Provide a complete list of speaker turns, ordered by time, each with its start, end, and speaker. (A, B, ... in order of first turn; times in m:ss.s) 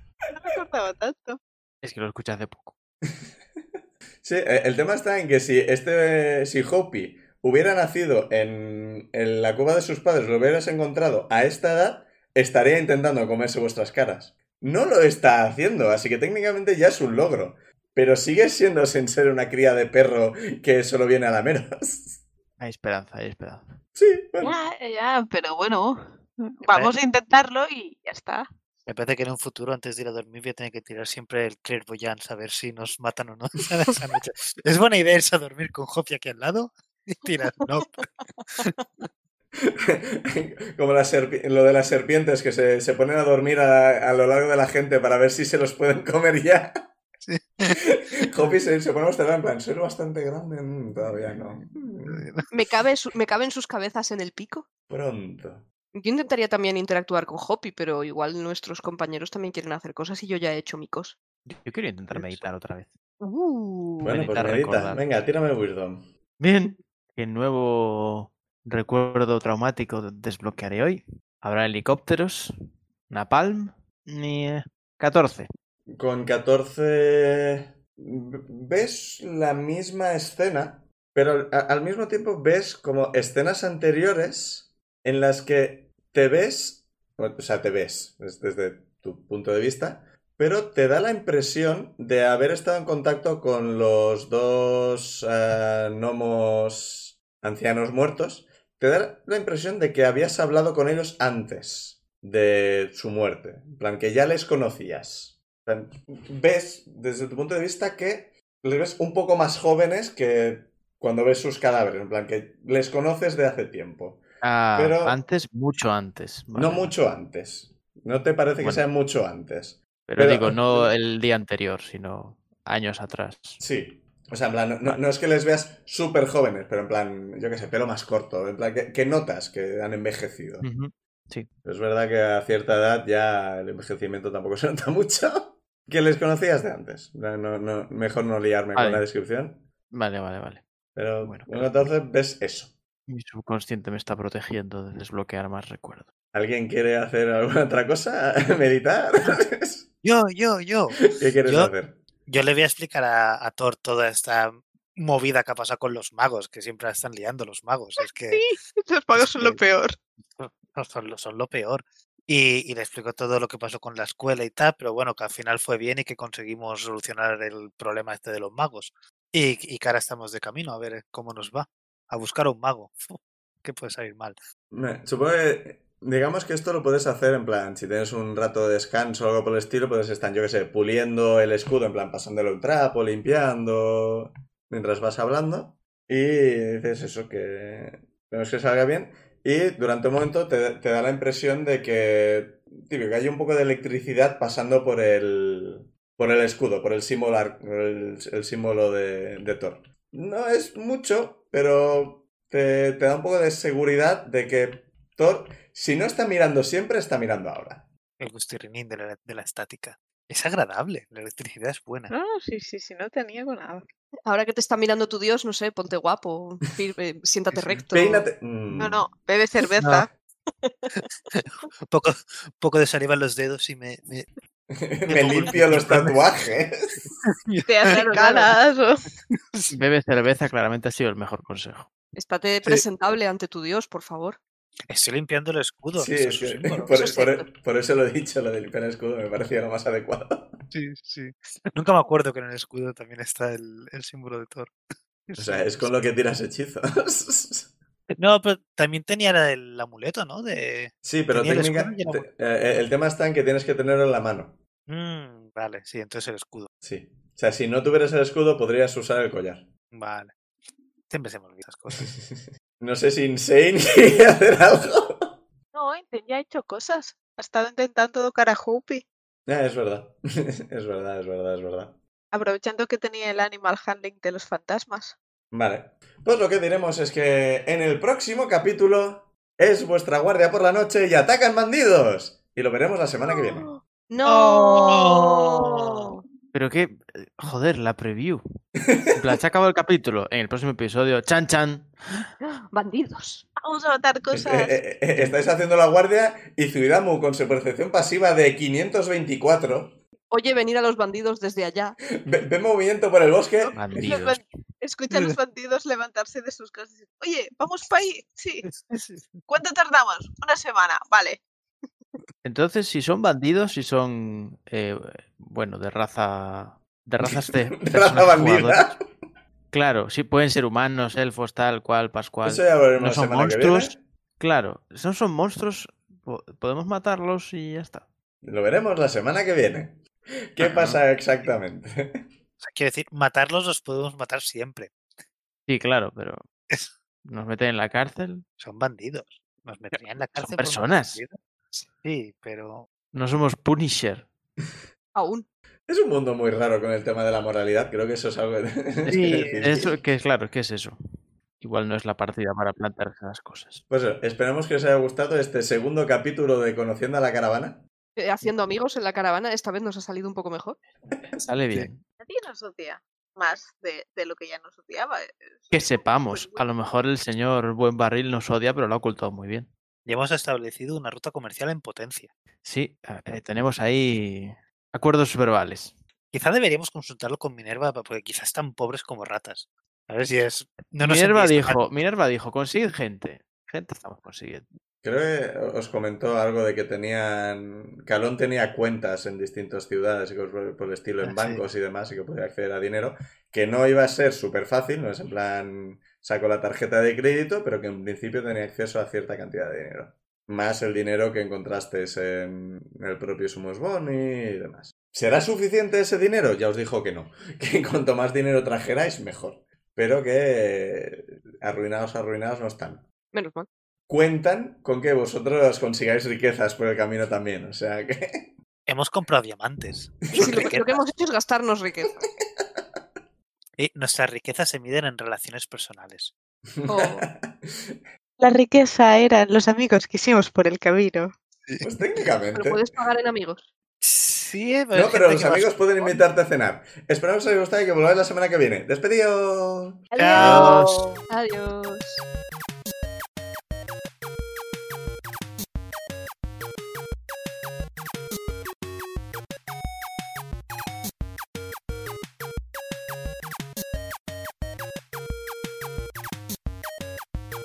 0:00.3-0:01.4 A
0:01.8-0:02.7 B
0:04.2-0:22.2 C
0:22.6-0:23.6 B
0:24.0-0:24.6 C
0:24.4-0:28.5 A
0:26.6-0:26.9 D
0:28.9-0:38.0 D
0:39.6-0:46.7 C
0:47.3-0:47.8 D
0:47.9-0:52.3 C
0:52.1-0:52.5 D
0:52.5-0:54.7 E
0:54.9-0:55.7 C
0:55.9-1:01.2 E
1:01.5-1:03.0 B
1:02.1-1:02.4 C
1:03.2-1:04.0 E
1:04.0-1:05.0 B
1:04.0-1:06.1 C
1:06.4-1:12.5 B
1:13.1-1:15.5 B
1:16.0-1:54.2 C
1:54.4-1:56.9 B
1:54.8-1:55.2 C
1:56.5-2:00.9 C
2:00.1-2:03.6 B
2:03.6-2:10.7 C
2:10.6-2:11.5 B
2:11.6-2:19.7 C
2:18.8-2:19.0 B
2:19.9-2:20.6 B
2:21.0-2:22.7 C
2:21.2-2:21.9 B
2:23.1-2:26.1 B
2:26.3-2:29.9 C
2:30.0-2:31.7 D
2:31.1-2:32.0 C
2:32.3-2:38.4 D
2:38.0-2:40.0 A
2:39.1-2:39.6 D
2:40.4-2:54.4 D
2:54.7-3:27.9 C
3:28.2-3:32.1 D
3:32.1-3:33.8 A
3:34.3-3:38.3 E
3:37.9-3:39.1 C
3:38.8-3:40.1 A
3:39.8-3:40.1 D
3:40.6-3:40.9 E
3:41.3-3:44.3 D
3:44.8-3:47.0 C
3:45.1-3:46.2 D
3:47.2-3:47.9 D
3:47.7-3:49.0 A
3:47.9-3:48.5 E
3:49.3-3:49.7 D
3:49.7-3:51.9 B
3:52.2-3:54.4 E
3:54.9-3:56.9 D
3:56.0-4:00.5 C
3:56.9-3:57.5 E
4:00.7-4:04.7 D
4:05.3-4:06.0 D
4:05.4-4:07.7 C
4:08.1-4:12.3 D
4:11.0-4:14.6 C
4:14.9-4:16.7 D
4:16.8-4:19.7 C
4:19.9-4:20.3 D
4:21.1-4:22.0 D
4:22.1-4:25.4 C
4:25.7-4:29.0 A
4:29.5-4:30.2 C
4:30.7-4:32.0 C
4:32.3-4:35.2 A
4:35.5-4:43.7 C
4:43.3-4:43.7 A
4:44.1-4:46.2 E
4:44.4-4:46.2 A
4:46.5-4:48.4 B
4:48.9-4:49.4 C
4:49.2-4:52.3 B
4:52.6-4:53.5 E
4:53.6-4:54.8 A
4:54.3-5:00.0 C
5:00.3-5:02.0 E
5:02.2-5:03.8 C
5:03.6-5:08.6 A
5:03.8-5:04.5 B
5:08.7-5:09.4 D
5:09.5-5:11.4 A
5:12.4-5:19.0 B
5:17.3-5:19.0 C
5:19.7-5:28.1 B
5:22.4-5:24.0 C
5:28.4-5:32.2 C
5:30.7-5:31.0 B
5:32.6-5:34.9 D
5:35.7-5:36.4 B
5:37.2-5:38.5 B
5:38.6-5:42.9 D
5:39.9-5:41.2 B
5:43.1-5:44.3 B
5:45.2-5:45.5 E
5:45.9-5:50.0 C
5:49.1-5:51.0 B
5:51.6-5:53.8 B
5:53.9-5:57.8 C
5:58.2-6:00.8 E
6:01.3-6:02.0 B
6:02.2-6:06.6 A
6:05.7-6:09.7 B
6:10.1-6:12.3 D
6:12.6-6:16.0 B
6:16.3-6:21.8 D
6:21.0-6:24.7 B
6:25.0-6:53.0 C
6:31.2-6:31.6 D
6:53.3-6:53.7 E
6:54.1-6:58.5 C
6:58.9-7:01.0 D
7:00.3-7:02.3 E
7:00.4-7:00.7 C
7:03.8-7:06.4 D
7:06.8-7:08.0 C
7:06.9-7:07.3 E
7:08.4-7:11.3 A
7:11.8-7:12.8 C
7:12.6-7:13.7 E
7:14.0-7:16.2 D
7:14.9-7:20.0 C
7:20.1-7:22.2 E
7:20.2-7:21.2 D
7:20.3-7:20.8 A
7:20.4-7:21.0 B